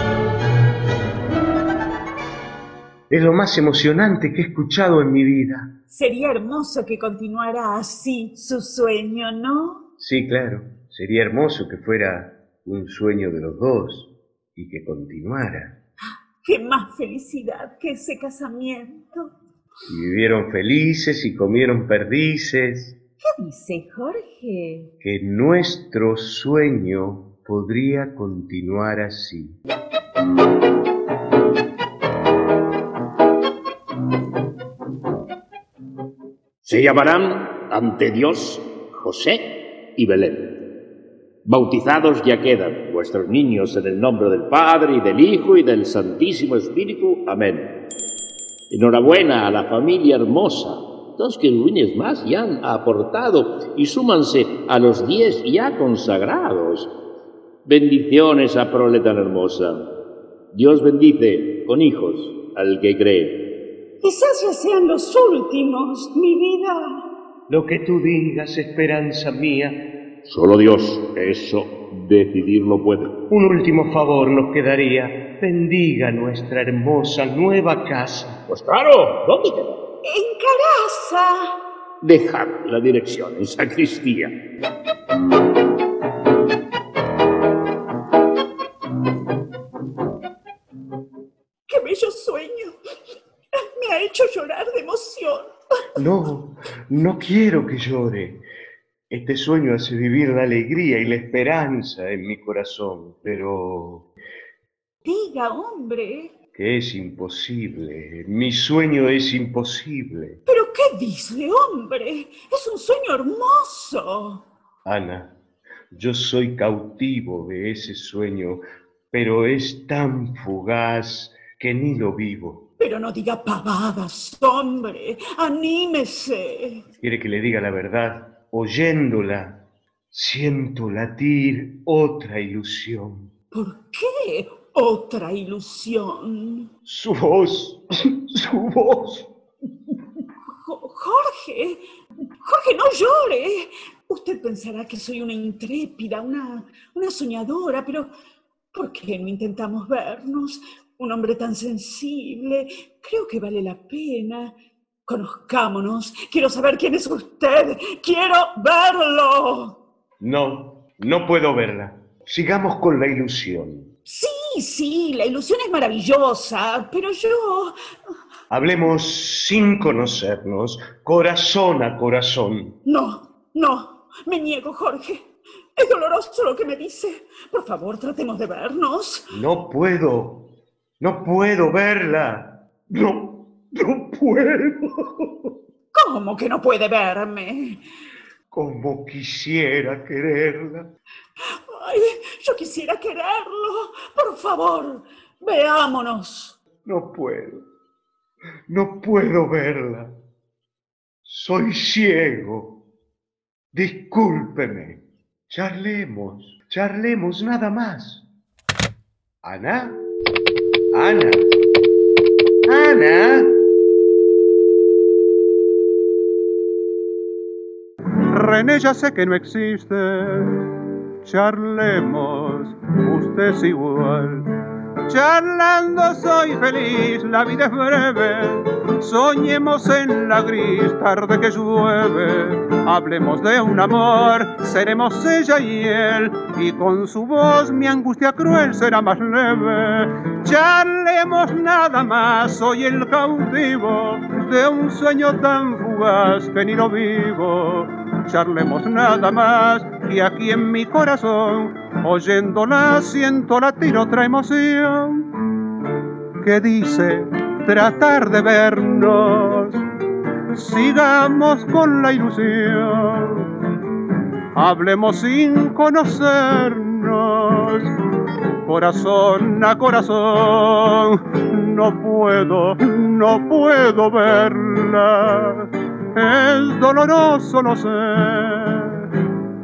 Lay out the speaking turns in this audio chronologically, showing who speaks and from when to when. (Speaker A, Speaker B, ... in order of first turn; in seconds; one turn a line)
Speaker A: 3.1-5.7
Speaker B: 5.9-9.8
Speaker A: 10.0-15.7
Speaker B: 16.4-19.3
Speaker A: 19.9-22.9
Speaker B: 23.2-24.9
Speaker A: 25.0-29.6
Speaker C: 36.6-40.5
Speaker C: 41.4-47.7
Speaker C: 48.7-56.9
Speaker C: 57.6-59.8
Speaker C: 60.5-63.3
Speaker B: 64.0-66.8
Speaker A: 67.5-69.8
Speaker C: 70.2-73.1
Speaker A: 73.3-78.4
Speaker C: 78.5-79.8
Speaker B: 80.1-81.3
Speaker C: 82.0-84.3
Speaker B: 91.7-92.7
Speaker B: 93.8-95.5
Speaker A: 96.0-98.4
Speaker A: 99.1-104.1
Speaker B: 105.0-106.3
Speaker A: 106.5-110.4
Speaker B: 110.5-114.4
Speaker A: 114.8-115.3
Speaker A: 115.9-122.6
Speaker B: 122.8-126.8
Speaker A: 127.0-129.6
Speaker A: 130.1-133.3
Speaker B: 133.5-136.7
Speaker A: 136.8-139.3
Speaker B: 140.5-141.8
Speaker B: 142.4-148.1
Speaker B: 148.7-159.8
Speaker A: 160.2-163.9
Speaker B: 164.1-167.7
Speaker A: 168.5-172.7
Speaker B: 172.8-175.2
Speaker B: 175.8-179.2
Speaker A: 179.3-180.4
Speaker A: 181.0-185.5
Speaker B: 185.9-187.8
Speaker A: 188.5-190.9
Speaker B: 191.7-196.6
Speaker A: 196.8-197.6
Speaker A: 198.7-200.1
Speaker A: 201.2-202.8
Speaker A: 203.7-208.2
Speaker A: 209.4-210.0
Speaker A: 210.9-211.5
Speaker A: 212.7-213.6
Speaker D: 218.3-224.5
Speaker D: 225.1-255.3
Speaker D: 256.4-259.8
Speaker D: 260.5-263.5
Speaker D: 264.6-267.9
Speaker D: 268.6-279.2